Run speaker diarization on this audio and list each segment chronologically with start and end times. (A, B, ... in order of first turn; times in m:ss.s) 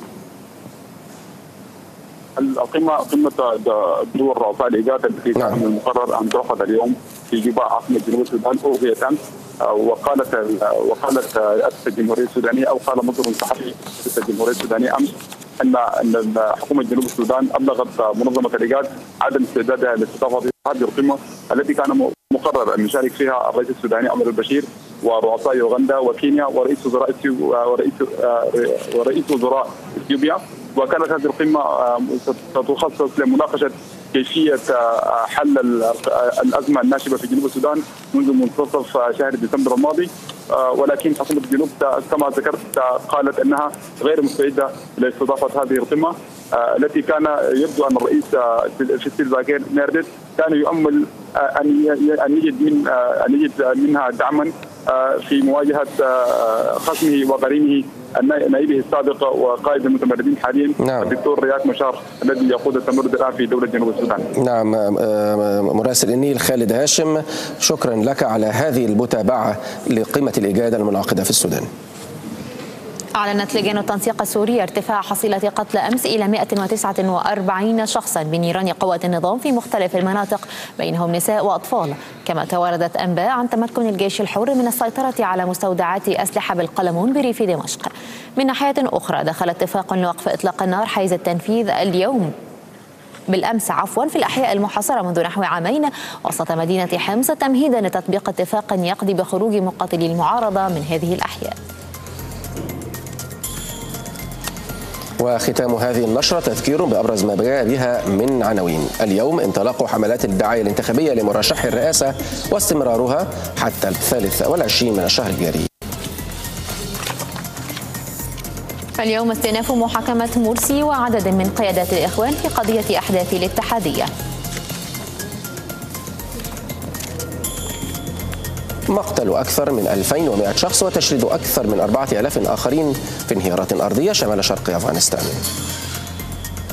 0:02.4-1:04.3 A
1:00.8-1:01.1 B
1:04.4-1:11.7 B
1:13.2-1:32.3 C
1:33.3-1:41.6 C
1:45.2-1:55.7 B
1:59.0-2:04.1 C
2:08.9-2:15.4 B